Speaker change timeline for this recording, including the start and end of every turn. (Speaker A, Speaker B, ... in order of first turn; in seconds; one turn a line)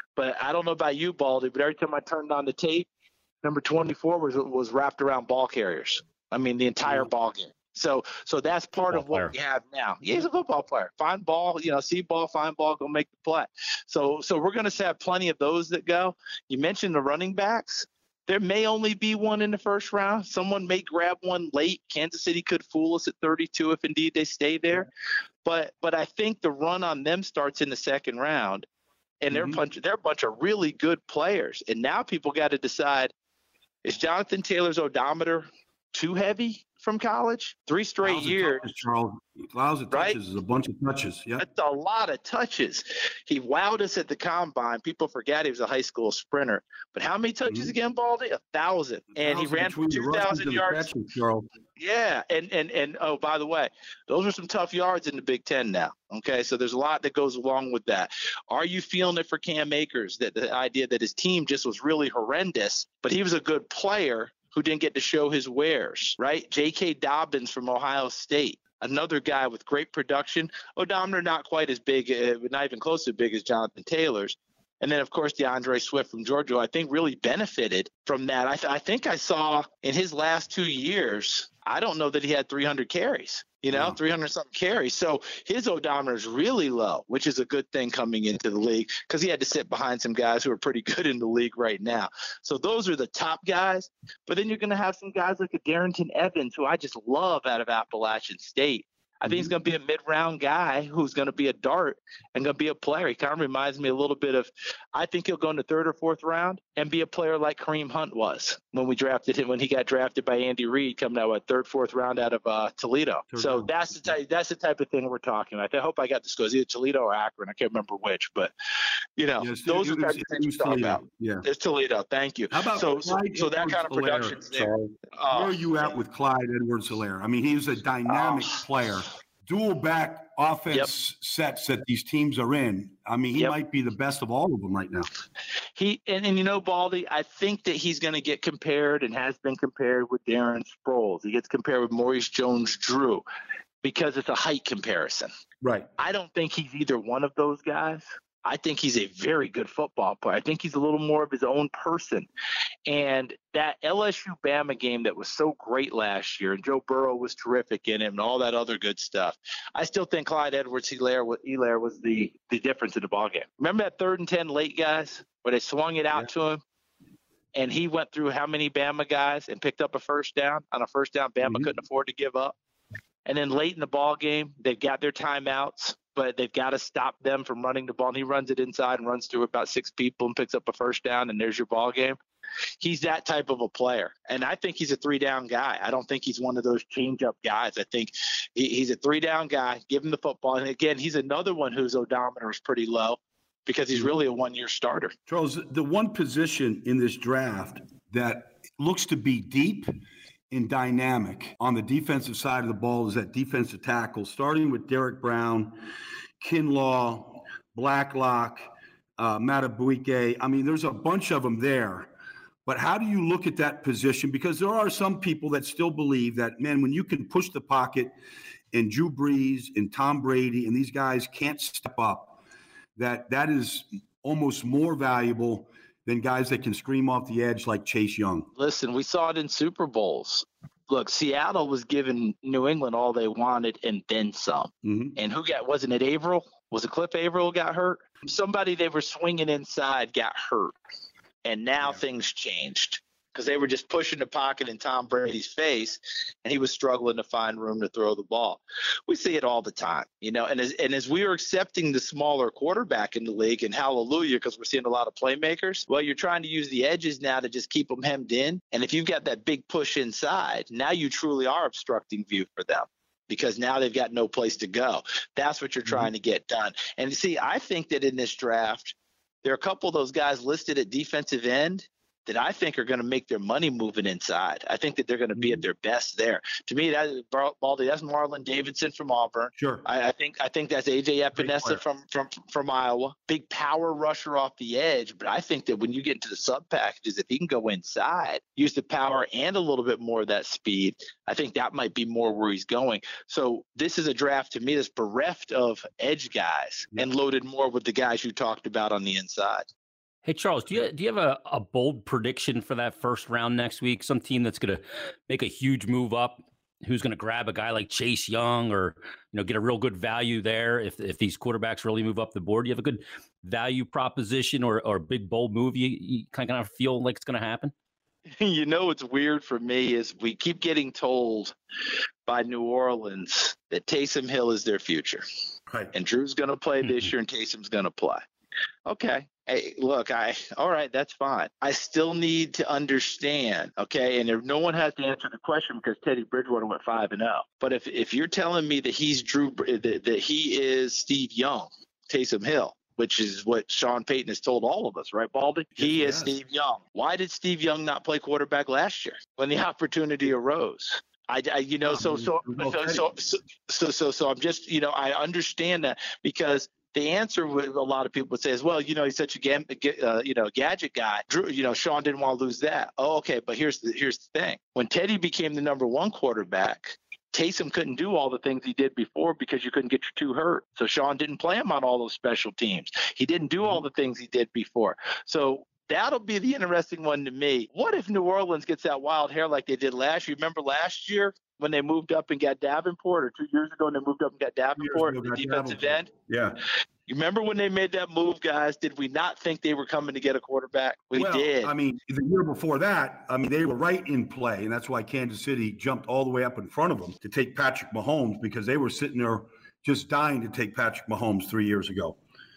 Speaker A: 0.2-2.9
Speaker A: 3.4-24.9
Speaker B: 8.9-9.3
Speaker A: 25.4-28.7
Speaker A: 29.2-33.1
Speaker C: 29.3-29.6
Speaker A: 33.9-38.7
Speaker C: 38.0-41.5
Speaker A: 39.9-40.2
Speaker A: 41.4-50.9
Speaker C: 47.5-47.7
Speaker C: 49.2-51.5
Speaker A: 51.8-118.5
Speaker C: 83.7-84.0
Speaker C: 99.3-99.5
Speaker C: 113.3-114.2
Speaker A: 119.2-125.9
Speaker C: 119.4-121.5
Speaker C: 122.5-135.1
Speaker A: 128.1-128.6
Speaker A: 135.8-143.2
Speaker A: 143.8-145.3
Speaker C: 145.6-145.9
Speaker A: 146.0-152.3
Speaker A: 152.9-166.6
Speaker A: 167.6-172.6
Speaker C: 171.4-171.7
Speaker A: 173.3-182.2
Speaker A: 182.8-195.1
Speaker C: 195.3-199.9
Speaker C: 200.5-205.7
Speaker C: 206.4-212.1
Speaker C: 212.7-218.1
Speaker C: 218.7-222.4
Speaker C: 222.9-228.5
Speaker A: 228.6-240.7
Speaker C: 234.8-235.2
Speaker A: 241.4-299.7
Speaker C: 275.4-275.6
Speaker C: 279.6-279.9
Speaker C: 281.3-281.8
Speaker B: 300.2-317.7
Speaker A: 318.4-321.6
Speaker A: 322.3-325.2
Speaker C: 325.7-325.9
Speaker A: 325.9-328.2
Speaker A: 328.9-386.1
Speaker C: 345.8-346.4
Speaker C: 351.9-353.1
Speaker C: 384.8-386.6
Speaker A: 387.1-391.7
Speaker C: 391.1-402.2